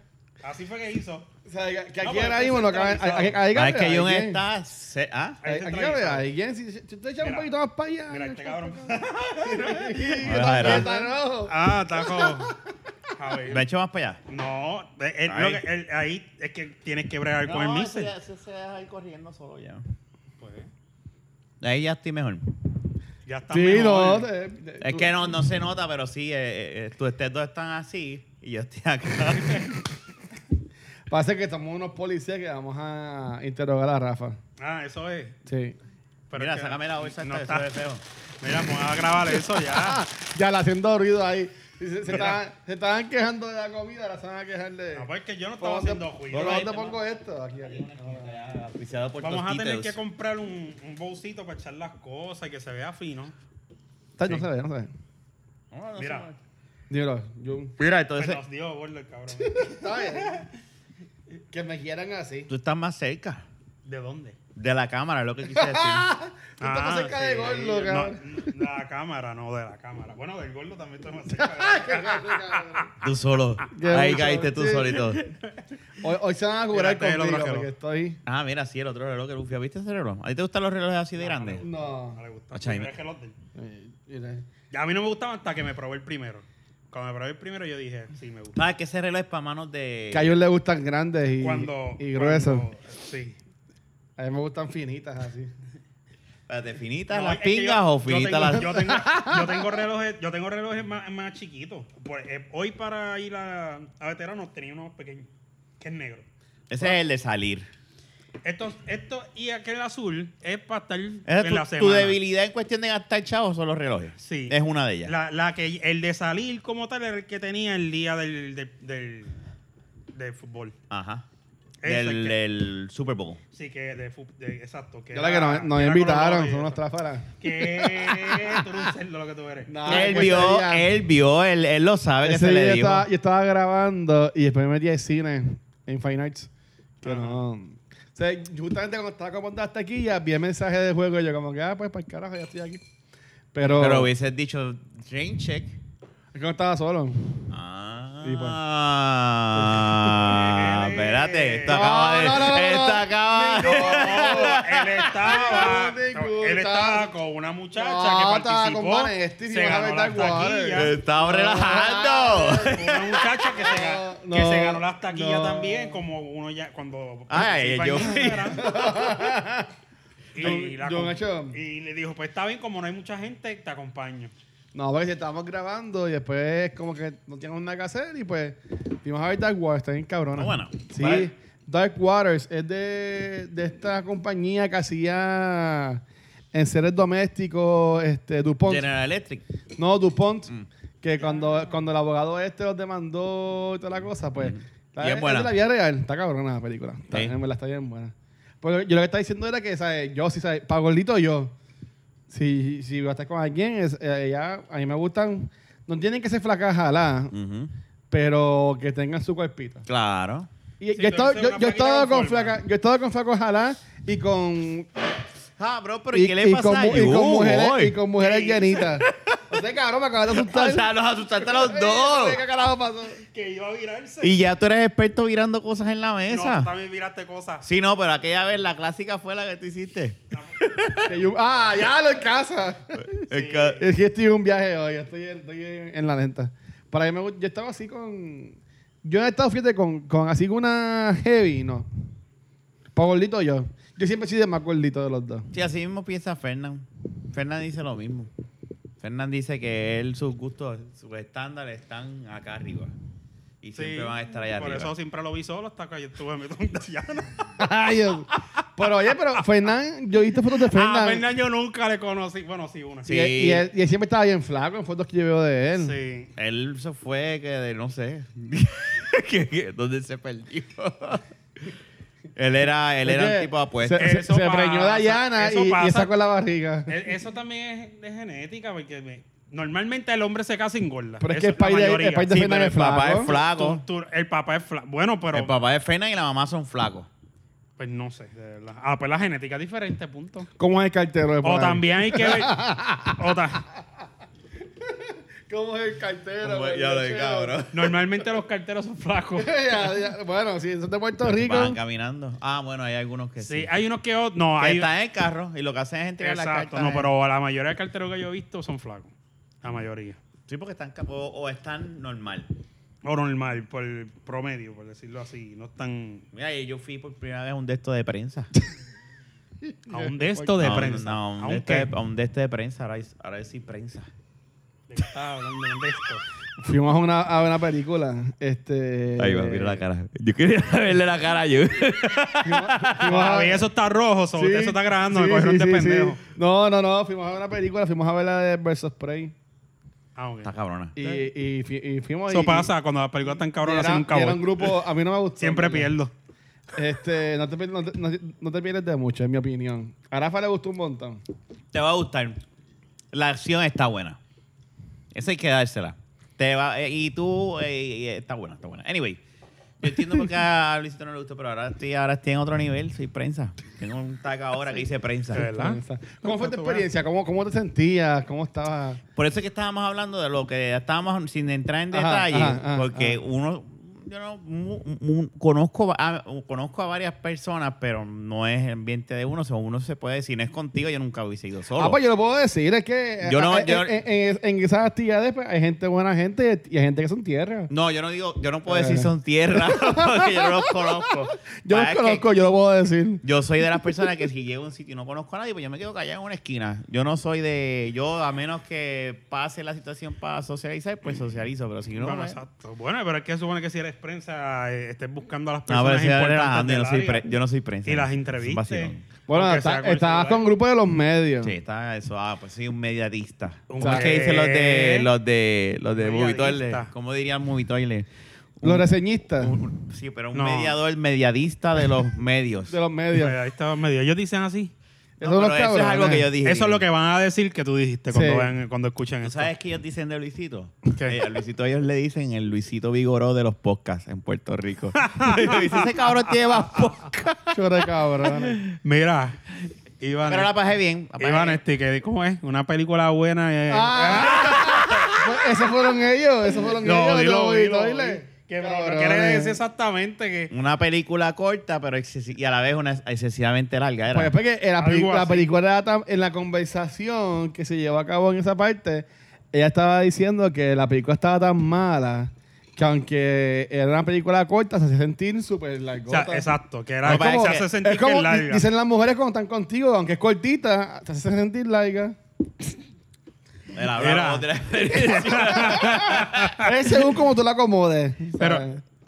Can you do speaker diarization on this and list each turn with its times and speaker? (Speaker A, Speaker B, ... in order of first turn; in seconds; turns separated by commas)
Speaker A: 0.4-1.3, Speaker B: 1.4-4.4, Speaker A: 2.0-3.4, Speaker C: 3.5-5.4, Speaker A: 5.4-6.3, Speaker B: 5.4-12.6, Speaker A: 7.2-7.5, Speaker A: 8.1-12.6, Speaker C: 10.2-10.9, Speaker A: 13.2-13.6, Speaker C: 13.5-14.2, Speaker A: 14.3-18.1, Speaker C: 15.3-15.6, Speaker C: 17.4-19.8, Speaker A: 20.4-20.7, Speaker C: 21.6-22.5, Speaker A: 23.2-24.3, Speaker B: 23.5-25.3, Speaker C: 24.8-29.7, Speaker A: 29.2-29.7, Speaker B: 31.1-34.4, Speaker A: 34.6-35.4, Speaker B: 35.5-35.8, Speaker A: 36.3-37.7, Speaker C: 36.3-38.0, Speaker A: 38.4-40.0, Speaker B: 39.6-45.1, Speaker A: 42.1-42.3, Speaker A: 44.9-47.0, Speaker B: 45.6-48.3, Speaker C: 46.3-46.7, Speaker C: 47.6-50.0, Speaker A: 49.2-53.3, Speaker B: 54.2-54.9, Speaker C: 55.7-56.4, Speaker A: 56.0-56.3, Speaker B: 56.9-57.7, Speaker C: 57.8-58.4, Speaker A: 58.2-60.3, Speaker B: 59.3-60.5, Speaker B: 61.5-62.5, Speaker C: 62.5-63.4, Speaker A: 63.8-64.3, Speaker C: 64.5-66.1, Speaker B: 65.5-68.4, Speaker A: 66.6-73.0, Speaker B: 71.3-72.9, Speaker C: 73.0-75.3, Speaker B: 73.7-75.2, Speaker B: 76.0-78.2, Speaker A: 76.7-77.7, Speaker C: 78.2-81.6, Speaker A: 81.2-83.3, Speaker B: 81.6-82.2, Speaker C: 82.5-82.9, Speaker B: 83.5-84.5, Speaker A: 84.7-88.6, Speaker C: 88.5-90.3, Speaker B: 90.1-92.7, Speaker A: 91.4-93.4, Speaker B: 94.2-95.5, Speaker C: 96.5-98.8, Speaker A: 97.1-105.3, Speaker B: 98.6-99.7, Speaker A: 105.8-106.2, Speaker C: 106.7-107.7, Speaker A: 108.4-112.2, Speaker C: 111.3-115.1, Speaker A: 114.2-119.4, Speaker A: 120.1-120.7, Speaker C: 120.9-121.2, Speaker A: 121.8-122.3, Speaker C: 121.8-123.4, Speaker A: 123.5-126.8, Speaker B: 125.1-128.6, Speaker A: 127.4-130.3, Speaker B: 129.7-130.9, Speaker C: 129.8-133.1, Speaker B: 132.2-136.5, Speaker B: 137.0-142.8, Speaker A: 137.0-137.4, Speaker B: 143.5-144.1, Speaker C: 143.7-145.8, Speaker B: 146.3-147.5, Speaker C: 147.5-155.5, Speaker B: 148.2-148.6, Speaker B: 149.6-150.3, Speaker A: 150.3-152.2, Speaker B: 151.7-154.6, Speaker A: 153.6-160.9, Speaker B: 155.2-157.1, Speaker B: 157.8-162.9, Speaker C: 160.7-163.3, Speaker A: 162.7-169.0, Speaker B: 163.5-166.0, Speaker C: 167.3-168.6, Speaker B: 168.5-169.7, Speaker A: 170.3-174.3, Speaker B: 170.4-171.6, Speaker B: 174.7-188.9, Speaker C: 180.3-181.3, Speaker C: 188.6-189.4, Speaker B: 189.8-190.5, Speaker B: 191.0-201.5, Speaker A: 191.2-191.7, Speaker C: 194.4-195.5, Speaker B: 202.3-207.3, Speaker C: 207.3-207.7, Speaker B: 208.1-209.8, Speaker C: 209.9-210.5, Speaker B: 210.8-214.9, Speaker A: 210.9-212.6, Speaker C: 215.6-218.0, Speaker B: 216.1-223.2, Speaker A: 218.2-218.9, Speaker C: 219.0-219.6, Speaker C: 220.3-222.4, Speaker A: 223.2-224.3, Speaker C: 224.2-226.7, Speaker A: 226.3-227.6, Speaker C: 227.6-231.2, Speaker A: 230.3-230.6, Speaker B: 231.0-233.2, Speaker C: 233.0-233.8, Speaker A: 233.3-233.8, Speaker B: 233.8-241.9, Speaker B: 242.9-245.5, Speaker C: 245.5-248.3, Speaker C: 249.0-252.9, Speaker C: 253.6-254.9, Speaker A: 253.7-257.5, Speaker B: 257.6-261.2, Speaker A: 260.7-263.2, Speaker C: 263.1-263.7, Speaker B: 263.1-265.9, Speaker A: 265.8-266.3, Speaker C: 266.4-271.7, Speaker C: 272.4-274.1, Speaker B: 273.0-277.1, Speaker A: 274.0-276.1, Speaker A: 276.9-282.3, Speaker B: 281.2-283.3, Speaker C: 282.3-283.8, Speaker A: 283.2-285.5, Speaker C: 285.3-287.1, Speaker A: 287.8-290.5, Speaker B: 290.6-293.3, Speaker A: 291.4-293.6, Speaker B: 294.8-297.6, Speaker C: 296.4-297.9, Speaker A: 297.7-299.9, Speaker B: 299.4-301.8, Speaker C: 301.2-303.7, Speaker A: 303.4-304.9, Speaker C: 304.6-307.1, Speaker A: 306.2-309.1, Speaker A: 309.6-310.2, Speaker C: 310.5-312.5, Speaker A: 313.0-316.2, Speaker C: 316.3-318.5, Speaker B: 319.9-320.9, Speaker A: 319.9-321.9, Speaker C: 320.6-324.1, Speaker A: 324.9-326.2, Speaker B: 326.6-329.8, Speaker C: 329.2-333.1, Speaker B: 332.4-333.6, Speaker A: 333.0-336.2, Speaker B: 334.3-339.3, Speaker A: 340.1-340.5, Speaker C: 340.4-341.0, Speaker B: 340.9-342.7, Speaker A: 342.3-344.7, Speaker B: 343.6-345.9, Speaker A: 345.4-346.1, Speaker B: 346.7-351.2, Speaker C: 351.7-352.4, Speaker C: 353.1-354.2, Speaker C: 355.1-359.2, Speaker C: 359.8-365.5, Speaker A: 365.3-366.8, Speaker B: 365.3-369.0, Speaker C: 369.1-382.0, Speaker B: 371.9-373.2, Speaker B: 381.8-387.7, Speaker C: 383.2-383.9, Speaker C: 387.7-392.2, Speaker B: 388.7-393.2, Speaker C: 393.2-402.4, Speaker A: 401.9-407.2, Speaker C: 405.7-409.1, Speaker A: 407.9-410.4, Speaker B: 409.3-411.5, Speaker C: 411.4-418.1, Speaker A: 413.7-415.1, Speaker B: 413.8-414.2, Speaker A: 415.9-416.9, Speaker C: 418.6-418.9, Speaker B: 418.6-419.5, Speaker C: 419.4-422.8, Speaker A: 420.3-420.8, Speaker B: 422.7-423.4, Speaker A: 423.1-424.7, Speaker B: 425.2-426.3, Speaker C: 425.2-426.9, Speaker A: 426.4-429.5, Speaker B: 428.1-428.5, Speaker C: 429.2-437.6, Speaker A: 434.9-436.2, Speaker B: 437.5-438.6, Speaker A: 438.7-439.4, Speaker A: 440.0-440.5, Speaker C: 440.2-441.6, Speaker A: 441.2-444.8, Speaker B: 443.7-449.6, Speaker C: 444.2-445.2, Speaker A: 446.8-450.5, Speaker C: 450.5-454.3, Speaker B: 454.1-466.5, Speaker A: 454.8-455.5, Speaker A: 466.1-468.7, Speaker C: 467.0-467.6, Speaker B: 467.0-472.2, Speaker C: 473.7-476.6, Speaker A: 473.9-476.7, Speaker B: 475.8-478.8, Speaker A: 478.4-478.6